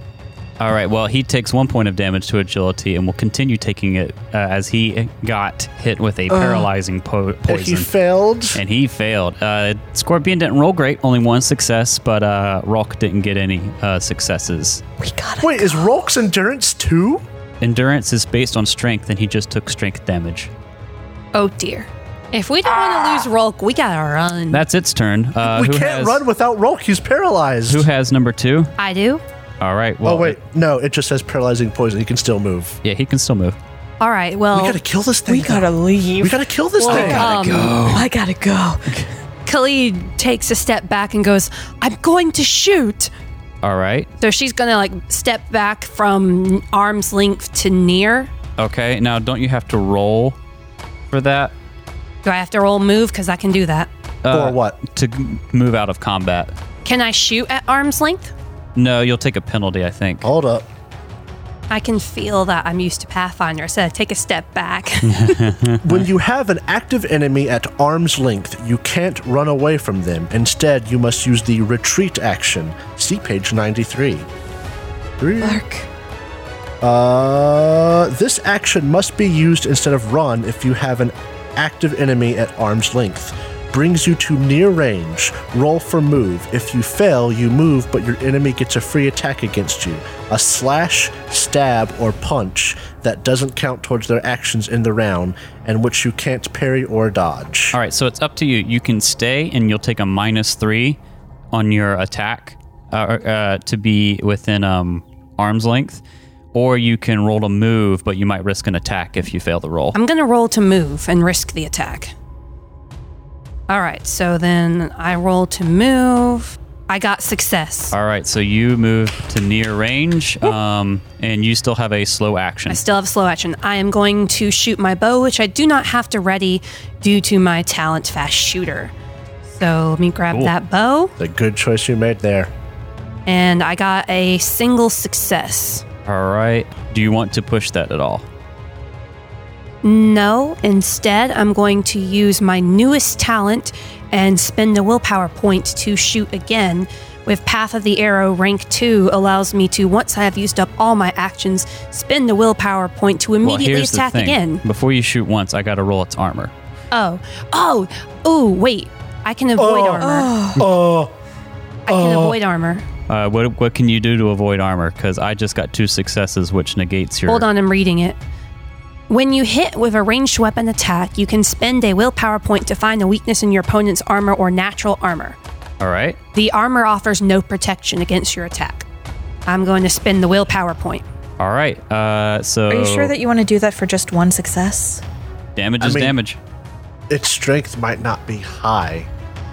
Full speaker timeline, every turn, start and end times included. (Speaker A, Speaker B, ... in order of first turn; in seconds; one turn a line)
Speaker A: 0.6-7.9
Speaker B: 6.3-6.6
Speaker B: 7.5-8.6
Speaker A: 8.5-14.8
Speaker C: 15.0-15.9
Speaker B: 15.4-17.2
Speaker A: 17.6-20.5
Speaker D: 21.3-24.6
Speaker A: 24.5-26.2
Speaker B: 25.4-27.9
Speaker A: 27.7-28.7
Speaker D: 28.8-29.2
Speaker A: 29.6-30.4
Speaker B: 30.0-32.8
Speaker A: 32.8-33.6
Speaker D: 34.0-34.8
Speaker B: 34.5-37.3
Speaker C: 35.3-38.9
Speaker D: 36.8-37.8
Speaker A: 36.8-38.1
Speaker D: 39.5-43.1
Speaker A: 43.6-44.1
Speaker D: 44.2-48.3
Speaker A: 48.6-50.4
Speaker A: 51.1-51.5
Speaker D: 52.2-53.9
Speaker A: 54.2-56.6
Speaker B: 54.3-54.8
Speaker D: 56.9-58.3
Speaker A: 58.8-60.3
Speaker B: 60.2-60.7
Speaker D: 61.7-65.4
Speaker A: 65.0-66.0
Speaker B: 65.8-74.3
Speaker B: 75.2-75.6
Speaker C: 75.4-75.9
Speaker B: 76.8-97.8
Speaker A: 97.7-101.0
Speaker A: 101.5-106.0
Speaker A: 106.5-110.0
Speaker D: 109.9-112.1
Speaker D: 113.7-117.9
Speaker A: 117.9-122.8
Speaker D: 122.7-128.9
Speaker D: 129.5-131.1
Speaker B: 131.2-132.5
Speaker D: 133.3-135.8
Speaker A: 136.1-138.3
Speaker D: 139.8-154.6
Speaker A: 153.4-156.5
Speaker D: 156.9-160.3
Speaker B: 159.6-161.1
Speaker C: 160.0-160.7
Speaker B: 161.9-162.4
Speaker D: 161.9-162.8
Speaker A: 163.1-167.5
Speaker D: 167.3-168.2
Speaker D: 169.1-175.4
Speaker A: 175.8-176.2
Speaker D: 176.3-178.8
Speaker D: 179.5-181.0
Speaker A: 181.4-183.1
Speaker C: 182.7-185.0
Speaker A: 185.6-186.4
Speaker B: 185.8-186.2
Speaker B: 187.1-189.1